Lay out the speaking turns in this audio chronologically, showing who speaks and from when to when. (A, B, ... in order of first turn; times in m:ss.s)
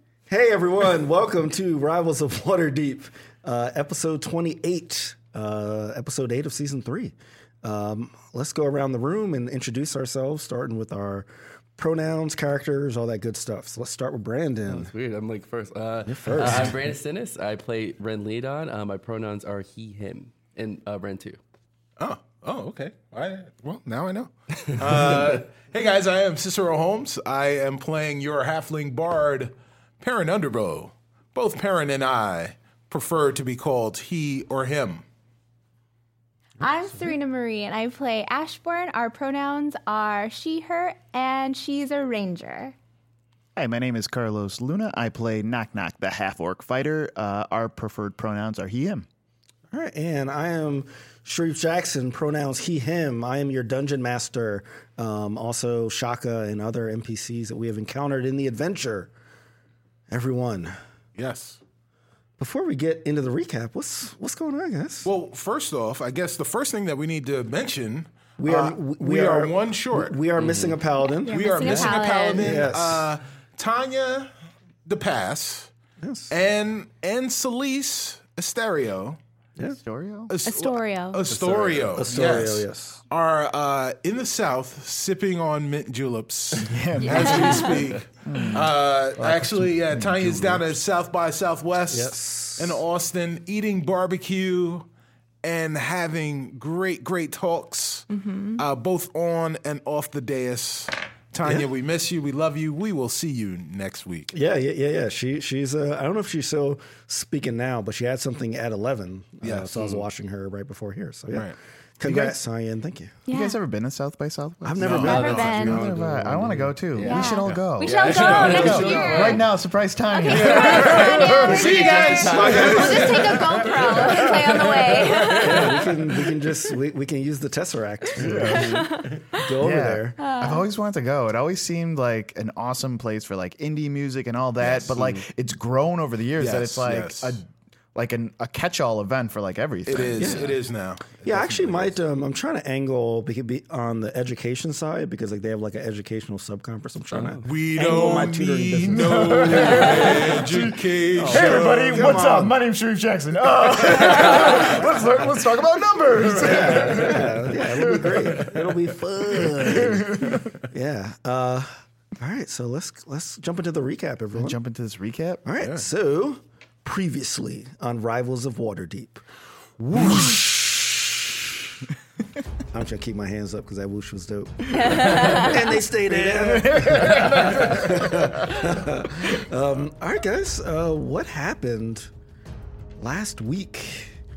0:00.3-0:14.9 A
0:14.7-0:21.4 B
0:16.0-0:16.8 A
0:22.0-0:35.0 C
0:36.6-0:42.7 D
0:43.6-0:49.0 E
0:49.7-0:59.1 A
1:00.1-1:00.7 A
1:01.1-1:01.6 C
1:02.4-1:05.1 A
1:05.0-1:08.1 C
1:08.4-1:13.1 A
1:08.5-1:08.8 E
1:08.6-1:10.2 C
1:10.4-1:10.8 B
1:11.0-1:12.6 D
1:11.3-1:14.3 C
1:14.9-1:15.7 C
1:16.0-1:16.3 A
1:16.3-1:19.2 C
1:19.8-1:20.3 E
1:20.3-1:34.9 C
1:20.4-1:21.2 D
1:21.4-1:23.0 A
1:26.6-1:28.7 E
1:27.0-1:27.9 D
1:29.2-1:29.7 A
1:29.9-1:30.6 E
1:31.9-1:32.8 A
1:35.4-1:44.3 C
1:38.1-1:38.6 D
1:44.3-1:53.2 A
1:49.4-1:50.0 C
1:52.0-1:52.4 C
1:53.3-1:53.6 D
1:53.3-2:01.7 E
1:54.6-1:55.6 A
1:54.8-1:55.5 C
1:55.0-1:55.9 D
1:55.0-1:59.4 B
1:57.0-1:59.5 D
1:58.0-1:59.4 C
2:00.1-2:05.9 D
2:00.2-2:05.9 C
2:01.4-2:03.2 A
2:02.5-2:02.9 B
2:04.1-2:04.8 B
2:05.3-2:10.2 A
2:08.2-2:08.9 E
2:08.4-2:09.4 D
2:09.6-2:20.4 E
2:10.2-2:10.7 D
2:14.6-2:15.2 C
2:16.4-2:17.4 C
2:19.9-2:22.0 C
2:20.2-2:20.6 A
2:21.2-2:30.2 A
2:27.1-2:27.4 B
2:27.4-2:32.1 C
2:28.9-2:38.6 E
2:31.3-2:32.6 A
2:36.3-2:44.6 A
2:39.4-2:40.5 E
2:44.3-2:45.5 E
2:45.4-2:49.2 A
2:49.9-2:51.2 A
2:50.0-2:50.2 C
2:52.7-3:02.1 A
2:54.7-2:55.8 D
2:56.3-2:58.3 E
3:03.0-3:04.2 A